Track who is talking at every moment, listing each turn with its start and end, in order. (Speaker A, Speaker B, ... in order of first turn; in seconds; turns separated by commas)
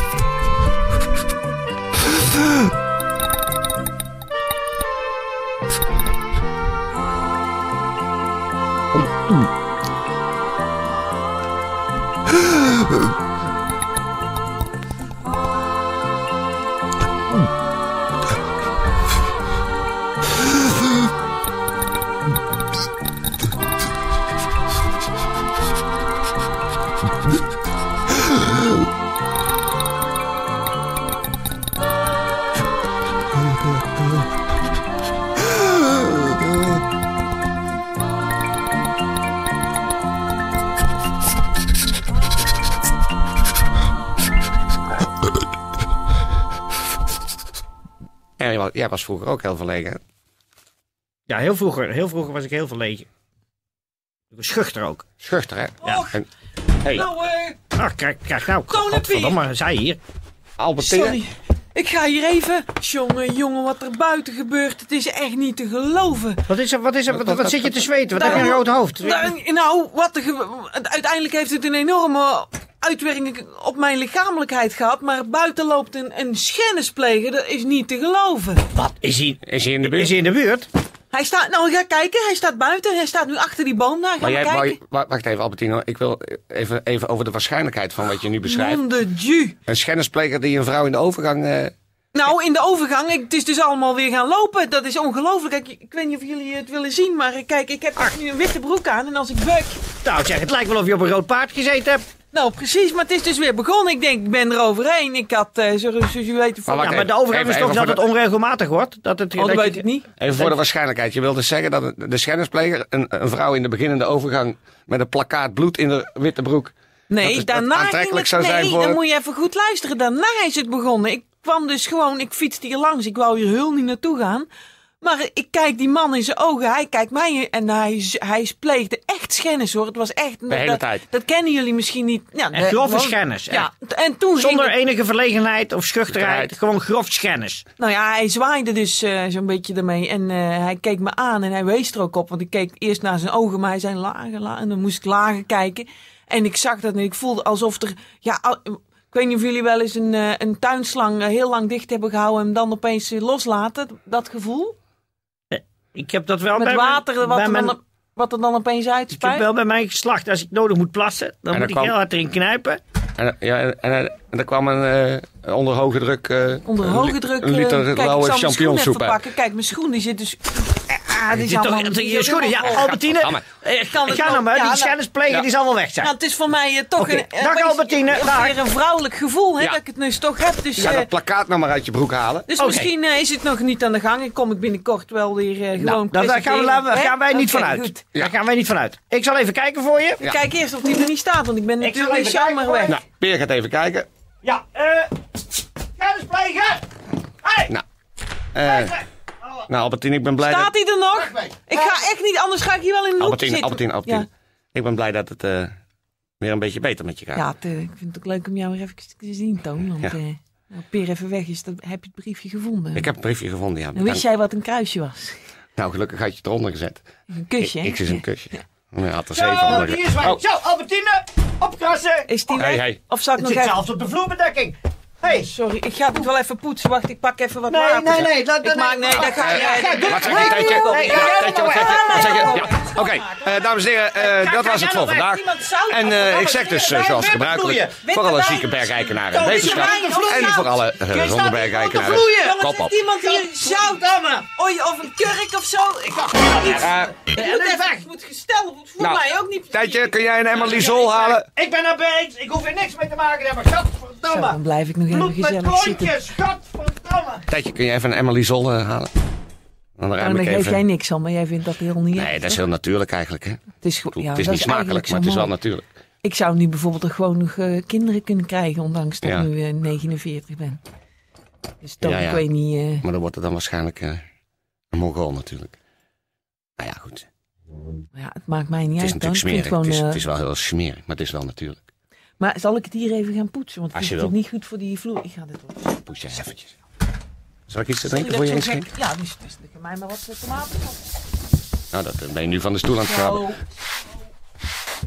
Speaker A: 48.4-50.0, Speaker B: 51.3-53.0, Speaker B: 54.3-55.0, Speaker A: 55.2-56.2, Speaker C: 55.8-56.2, Speaker C: 56.9-57.6, Speaker B: 57.7-60.0, Speaker C: 58.7-59.4, Speaker A: 60.6-61.2, Speaker C: 60.8-66.4, Speaker B: 66.5-69.3, Speaker A: 67.1-67.5, Speaker C: 68.1-78.7, Speaker B: 78.7-80.7, Speaker A: 79.4-80.1, Speaker C: 81.1-84.8, Speaker A: 84.2-88.8, Speaker C: 88.4-89.6, Speaker A: 89.7-91.7, Speaker C: 92.1-99.8, Speaker B: 100.0-102.0, Speaker C: 102.3-107.1, Speaker A: 106.7-108.0, Speaker B: 106.8-110.5, Speaker C: 109.3-110.1, Speaker A: 110.2-119.0, Speaker C: 117.1-124.5, Speaker C: 125.0-134.8, Speaker A: 130.5-131.0, Speaker B: 132.5-133.7, Speaker B: 134.3-137.6, Speaker A: 136.1-136.5, Speaker C: 137.8-154.7, Speaker B: 155.5-157.7, Speaker C: 156.5-159.4, Speaker B: 159.1-162.8, Speaker A: 161.5-161.9, Speaker A: 163.2-169.2, Speaker C: 166.6-172.9, Speaker B: 170.9-176.1, Speaker A: 173.0-173.4, Speaker C: 173.9-175.0, Speaker C: 176.0-181.1, Speaker B: 177.0-178.6, Speaker A: 180.8-182.5, Speaker C: 182.5-188.1, Speaker B: 182.6-182.9, Speaker B: 185.7-190.2, Speaker C: 190.2-193.0, Speaker B: 191.8-193.0, Speaker A: 192.9-194.1, Speaker B: 194.4-195.1, Speaker B: 196.0-196.8, Speaker B: 197.4-197.7, Speaker A: 198.5-199.0, Speaker B: 198.6-199.0, Speaker A: 199.7-200.7, Speaker C: 200.4-204.3, Speaker B: 201.2-202.0, Speaker A: 203.2-205.7, Speaker A: 206.4-207.4, Speaker C: 207.3-213.1, Speaker A: 212.9-214.2, Speaker C: 213.9-215.4, Speaker A: 215.8-217.0, Speaker C: 217.3-218.6, Speaker A: 217.6-220.4, Speaker B: 219.3-222.7, Speaker C: 222.3-223.8, Speaker A: 222.6-223.0, Speaker B: 223.4-225.5, Speaker C: 225.3-237.1, Speaker B: 227.7-232.6, Speaker A: 229.1-243.0, Speaker B: 234.8-235.2, Speaker B: 236.3-238.0, Speaker C: 238.0-240.7, Speaker B: 239.3-244.5, Speaker C: 241.7-251.3, Speaker B: 246.1-248.1, Speaker A: 246.8-247.3, Speaker A: 249.0-251.5, Speaker B: 250.6-257.4, Speaker C: 254.2-256.2, Speaker A: 257.5-259.1, Speaker A: 260.0-260.8, Speaker C: 260.2-262.6, Speaker A: 262.1-265.9, Speaker C: 263.8-265.6, Speaker C: 266.2-270.8, Speaker A: 269.2-269.5, Speaker C: 271.8-273.0, Speaker A: 272.0-272.4, Speaker A: 273.0-274.2, Speaker A: 274.9-275.7, Speaker A: 276.8-277.3, Speaker C: 278.1-280.2, Speaker A: 279.0-281.8, Speaker C: 282.4-285.9, Speaker A: 283.9-284.3, Speaker A: 286.1-286.7, Speaker A: 287.7-288.9, Speaker C: 288.1-291.0, Speaker A: 291.9-293.5, Speaker C: 293.0-293.6